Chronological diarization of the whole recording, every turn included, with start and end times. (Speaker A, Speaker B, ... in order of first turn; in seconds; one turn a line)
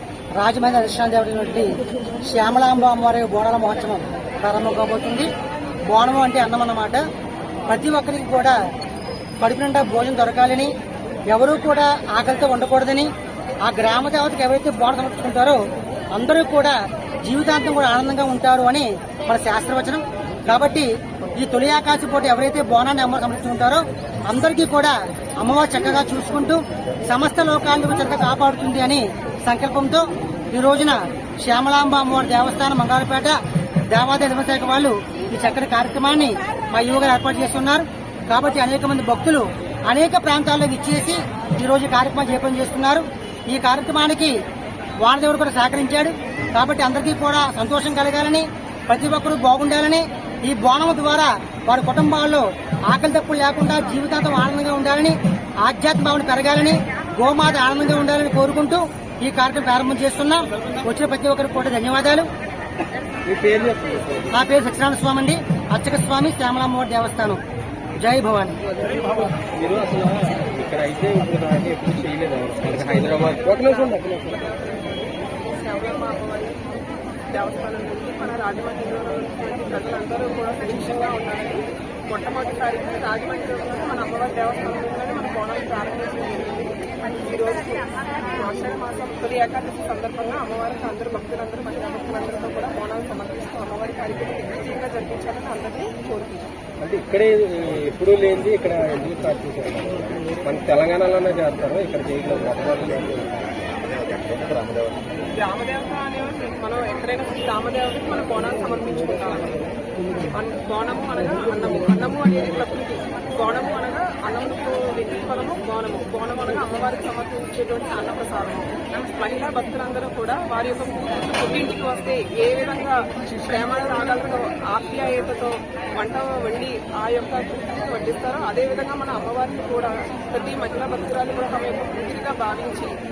Speaker A: 0.4-5.3
Speaker A: 5.9-7.0
Speaker A: 7.7-8.6
Speaker A: 9.4-10.7
Speaker A: 11.3-13.1
Speaker A: 13.7-15.6
Speaker A: 16.1-33.4
Speaker A: 33.9-44.4
Speaker A: 45.0-62.3
Speaker B: 63.2-64.3
Speaker A: 64.3-67.4
Speaker A: 68.0-68.6
Speaker B: 69.4-74.4
Speaker C: 73.1-76.6
Speaker C: 77.3-96.5
Speaker B: 96.8-105.0
Speaker C: 105.3-109.8
Speaker C: 110.3-132.9